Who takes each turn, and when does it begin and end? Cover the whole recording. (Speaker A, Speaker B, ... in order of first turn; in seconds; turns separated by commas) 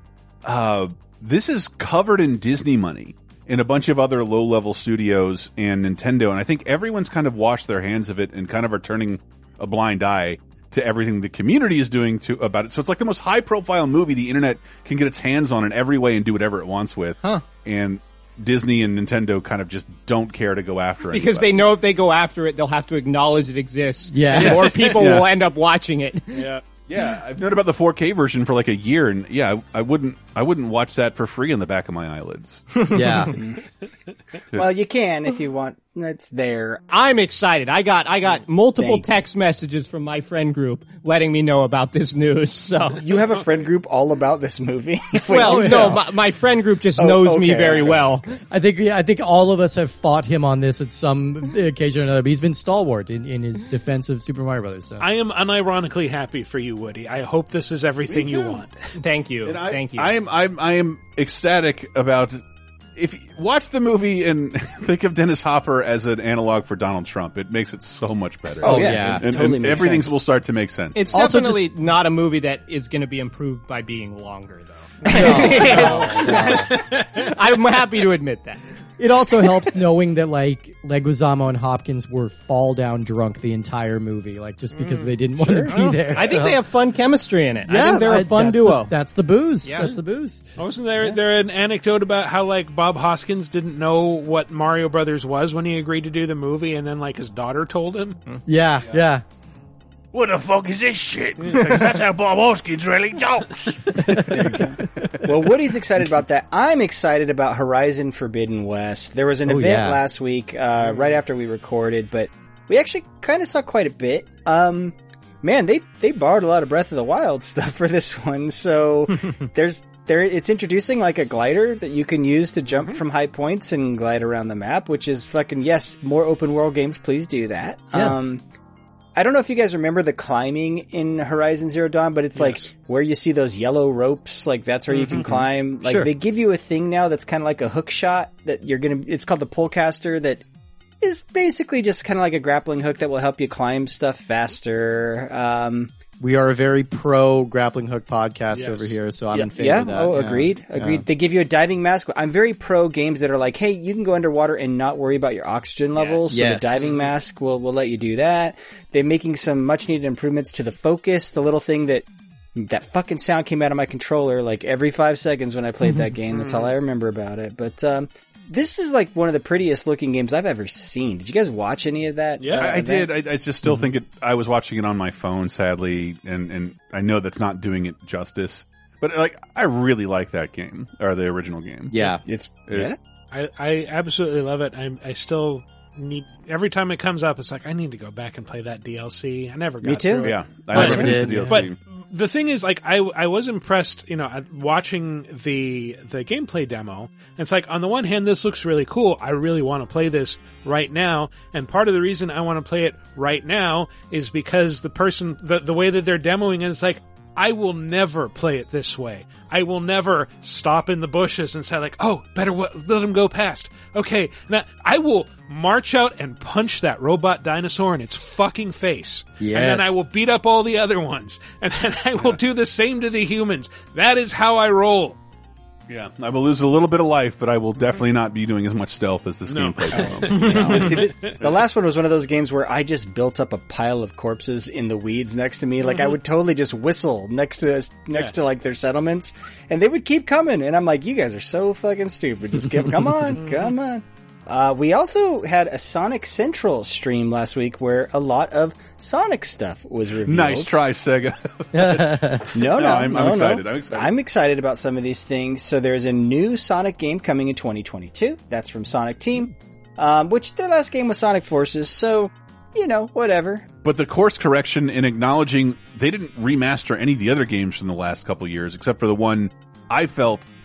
Speaker A: 0.4-21.6, Speaker B: 21.1-26.6, Speaker C: 24.1-24.8, Speaker A: 24.3-25.3, Speaker D: 26.3-26.6, Speaker A: 26.9-32.7, Speaker B: 32.8-33.1, Speaker C: 32.9-33.3, Speaker E: 33.3-33.6, Speaker E: 34.5-36.8, Speaker B: 36.9-43.0, Speaker E: 38.8-39.1, Speaker E: 43.0-46.1, Speaker B: 45.3-48.3, Speaker C: 45.4-46.0, Speaker E: 47.0-48.0, Speaker C: 48.5-55.0, Speaker D: 55.0-58.9, Speaker A: 58.1-58.6, Speaker B: 59.0-60.1, Speaker A: 59.4-62.4, Speaker A: 63.0-71.1, Speaker E: 68.6-70.1, Speaker C: 68.6-69.2, Speaker B: 70.9-78.6, Speaker C: 71.1-71.7, Speaker D: 75.1-77.3, Speaker C: 75.1-76.7, Speaker C: 79.0-86.6, Speaker D: 84.7-85.1, Speaker E: 85.4-85.7, Speaker B: 85.7-88.9, Speaker C: 87.7-90.4, Speaker B: 89.6-89.9, Speaker D: 90.6-98.2, Speaker C: 98.5-99.2, Speaker F: 100.3-104.2, Speaker A: 100.4-101.4, Speaker D: 101.4-102.0, Speaker D: 103.4-104.5, Speaker E: 104.3-128.4, Speaker C: 109.4-110.0, Speaker D: 110.8-111.2, Speaker E: 129.2-140.4, Speaker D: 132.3-132.7, Speaker D: 134.9-135.3, Speaker C: 135.8-136.1, Speaker E: 141.0-145.9, Speaker C: 146.2-151.0, Speaker D: 148.5-148.9, Speaker E: 149.3-173.1, Speaker D: 155.9-157.1, Speaker C: 156.3-156.9, Speaker D: 166.3-166.7, Speaker D: 172.4-172.7, Speaker A: 172.6-182.1, Speaker C: 181.9-182.2, Speaker E: 182.2-183.0, Speaker A: 182.7-182.9, Speaker D: 183.3-225.2, Speaker E: 189.8-191.1, Speaker A: 190.2-191.8, Speaker C: 190.7-191.7, Speaker C: 219.4-219.9, Speaker A: 225.9-230.9, Speaker D: 229.5-231.3, Speaker E: 229.9-250.8, Speaker B: 230.4-230.7, Speaker D: 235.9-236.2, Speaker D: 243.4-243.7, Speaker A: 250.2-254.1, Speaker C: 251.7-252.5, Speaker E: 252.5-263.6, Speaker A: 263.8-270.5